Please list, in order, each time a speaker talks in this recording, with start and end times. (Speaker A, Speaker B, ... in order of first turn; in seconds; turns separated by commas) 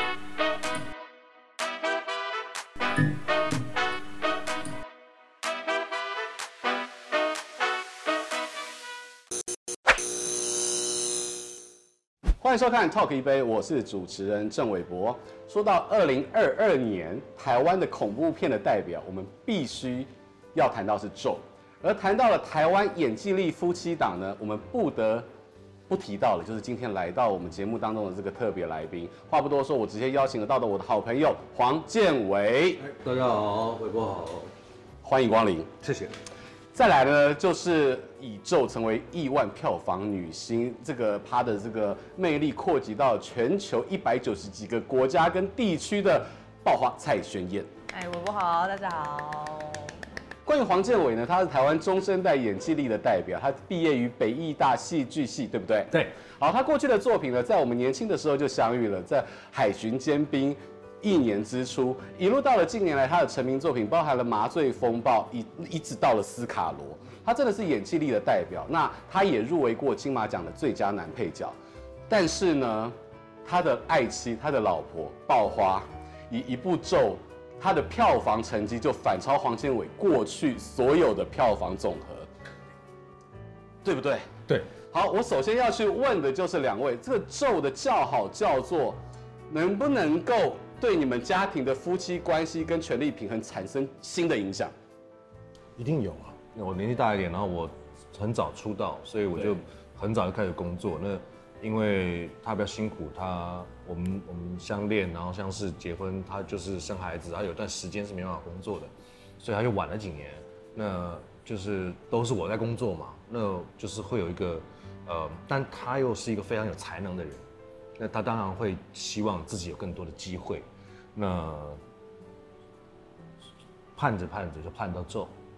Speaker A: 12.4-25.3, Speaker A: 25.9-32.8, Speaker B: 32.8-34.5, Speaker A: 35.0-35.7, Speaker B: 35.8-36.2, Speaker A: 36.7-47.7, Speaker C: 47.9-50.0, Speaker A: 50.5-71.6, Speaker B: 55.9-56.2, Speaker A: 72.1-82.3, Speaker A: 83.8-84.3, Speaker B: 84.5-84.7, Speaker A: 84.9-94.7, Speaker B: 95.8-117.4, Speaker A: 99.3-99.6, Speaker B: 118.0-121.8, Speaker B: 124.0-125.3